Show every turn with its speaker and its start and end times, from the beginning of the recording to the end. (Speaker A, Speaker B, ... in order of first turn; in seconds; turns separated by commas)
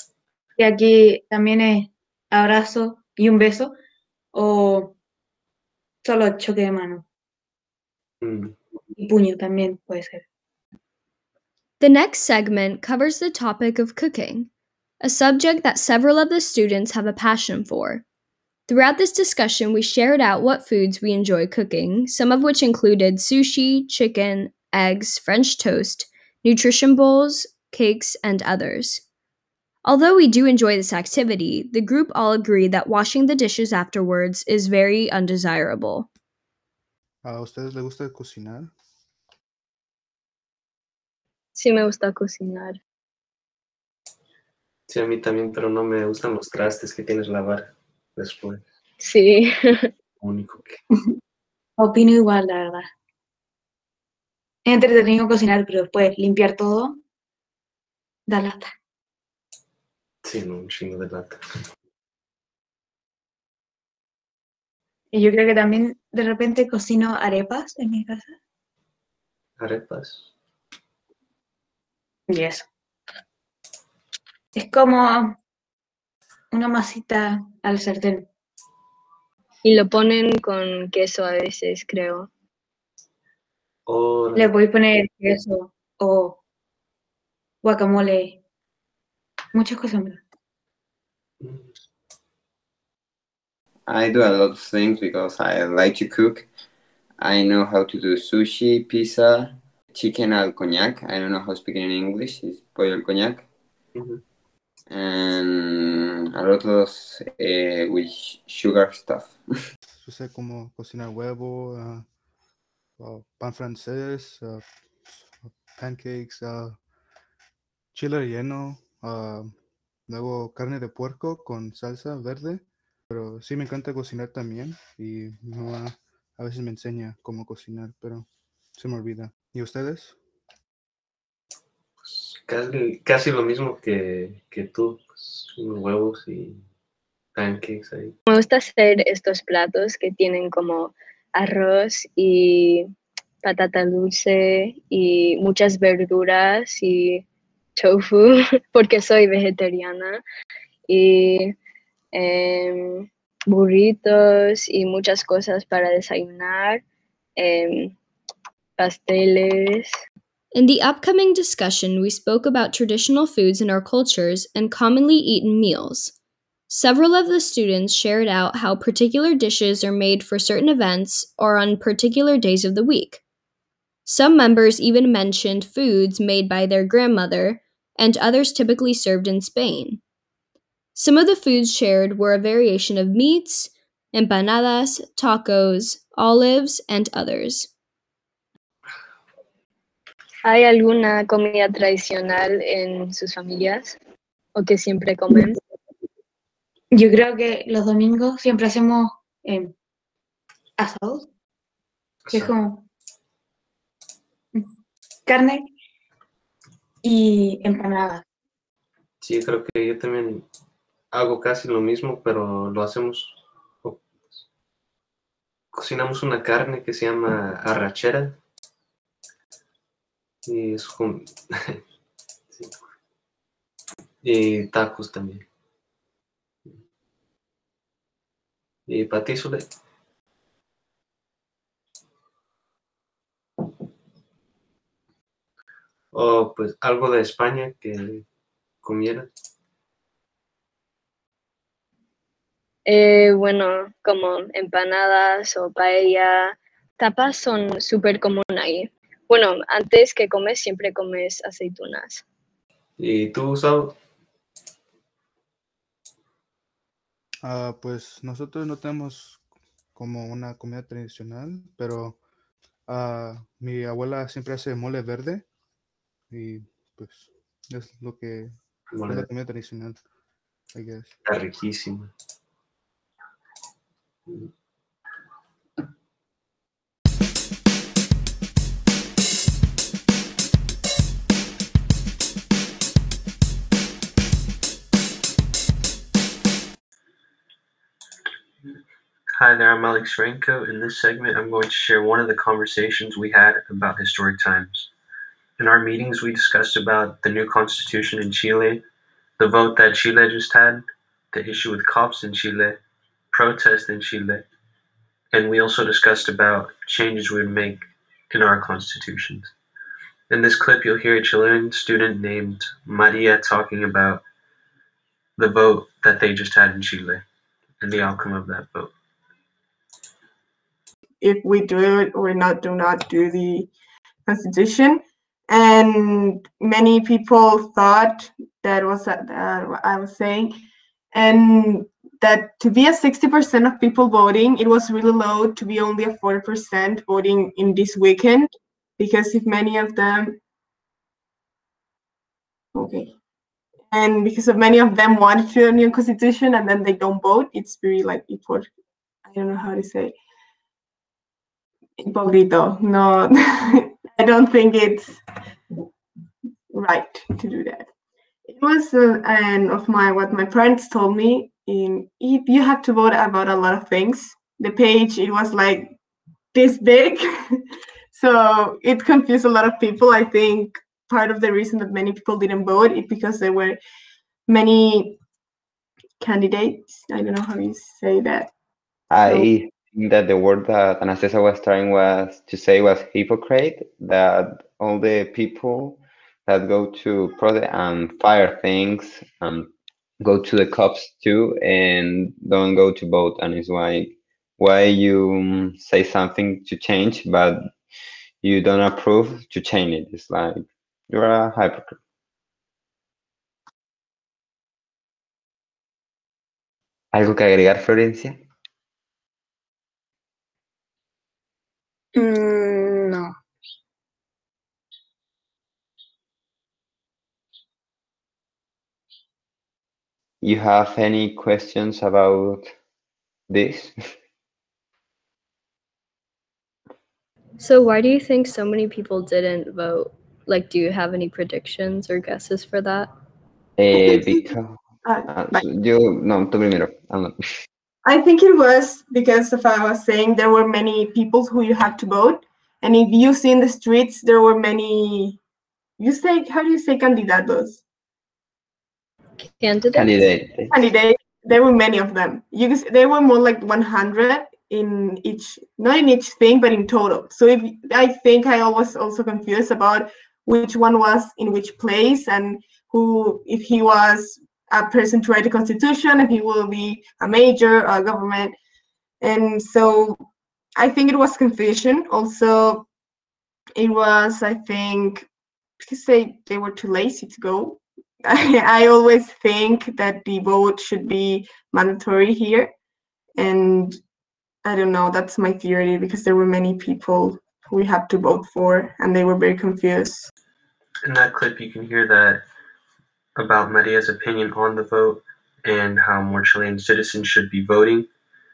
Speaker A: 0.6-3.7, Speaker A: 4.3-4.9, Speaker A: 6.0-7.0, Speaker B: 8.2-8.5, Speaker A: 9.0-10.2, Speaker C: 11.8-14.5, Speaker C: 15.0-18.0, Speaker C: 18.7-29.0, Speaker C: 29.8-36.1, Speaker D: 37.2-38.7, Speaker E: 41.5-42.8, Speaker B: 44.9-48.6, Speaker E: 49.0-49.9, Speaker B: 50.2-50.8, Speaker A: 51.8-52.9, Speaker A: 54.6-57.0, Speaker A: 58.3-58.7, Speaker B: 60.2-61.4, Speaker A: 65.1-68.4, Speaker B: 69.6-70.3, Speaker A: 72.3-72.7, Speaker A: 74.5-75.3, Speaker A: 76.5-78.3, Speaker E: 79.7-82.3, Speaker B: 83.9-84.5, Speaker A: 84.3-86.4, Speaker A: 87.6-88.4, Speaker A: 89.5-90.2, Speaker F: 93.9-96.5, Speaker F: 97.2-103.5, Speaker B: 104.0-104.2, Speaker F: 104.9-109.3, Speaker D: 110.0-112.0, Speaker D: 113.0-116.8, Speaker D: 117.9-119.5, Speaker D: 120.1-130.2, Speaker B: 132.0-136.6, Speaker B: 137.3-138.2, Speaker E: 138.3-142.9, Speaker E: 143.4-147.2, Speaker E: 147.8-150.2, Speaker E: 150.9-151.6, Speaker E: 152.2-156.8, Speaker E: 157.4-157.9, Speaker E: 158.8-159.9, Speaker C: 160.5-166.1, Speaker C: 166.7-173.2, Speaker C: 174.1-180.0, Speaker C: 181.0-187.7, Speaker E: 190.5-194.0, Speaker E: 194.6-195.6, Speaker A: 196.9-199.7, Speaker A: 200.8-201.3, Speaker A: 202.3-202.8, Speaker A: 205.3-205.7, Speaker A: 207.0-208.2, Speaker B: 209.2-210.4, Speaker B: 211.1-214.0, Speaker B: 215.7-218.4, Speaker B: 220.5-221.8, Speaker B: 224.2-225.4, Speaker B: 228.9-229.7, Speaker B: 236.1-238.2, Speaker B: 238.8-239.3, Speaker E: 242.9-252.2, Speaker B: 253.0-253.9, Speaker D: 257.4-259.4, Speaker D: 260.0-262.2, Speaker D: 262.9-265.4, Speaker D: 266.3-268.5, Speaker B: 268.9-269.3, Speaker D: 269.1-270.0, Speaker D: 270.7-271.1, Speaker B: 271.3-272.1, Speaker E: 290.2-291.1, Speaker E: 291.8-292.2, Speaker E: 293.0-294.4, Speaker B: 296.1-298.8, Speaker B: 299.4-300.8, Speaker B: 301.3-302.8, Speaker B: 303.3-304.4, Speaker B: 305.3-309.5, Speaker B: 310.3-314.2, Speaker B: 315.4-317.2, Speaker B: 317.8-318.9, Speaker G: 321.2-323.7, Speaker G: 324.3-330.6, Speaker G: 331.1-340.4, Speaker G: 342.8-343.1, Speaker G: 343.9-348.7, Speaker G: 349.2-350.1, Speaker G: 352.0-355.2, Speaker G: 356.7-357.9, Speaker G: 358.5-366.0, Speaker G: 366.5-373.8, Speaker G: 374.5-375.2, Speaker G: 376.2-378.5, Speaker F: 379.1-389.7, Speaker F: 390.2-397.6, Speaker F: 398.4-402.0, Speaker F: 407.1-408.4, Speaker A: 412.1-413.3, Speaker F: 420.4-422.7, Speaker F: 423.5-423.9, Speaker C: 427.6-433.1, Speaker F: 433.8-437.4, Speaker G: 433.9-434.4, Speaker G: 435.1-435.6, Speaker G: 438.0-445.4, Speaker G: 446.0-447.8, Speaker C: 449.4-450.3, Speaker F: 449.9-450.7, Speaker G: 450.7-468.6, Speaker G: 469.2-470.2, Speaker G: 470.8-472.9, Speaker G: 473.8-475.3, Speaker G: 475.8-482.7, Speaker G: 483.4-484.0, Speaker G: 484.6-490.3, Speaker B: 491.1-492.4, Speaker B: 493.4-498.1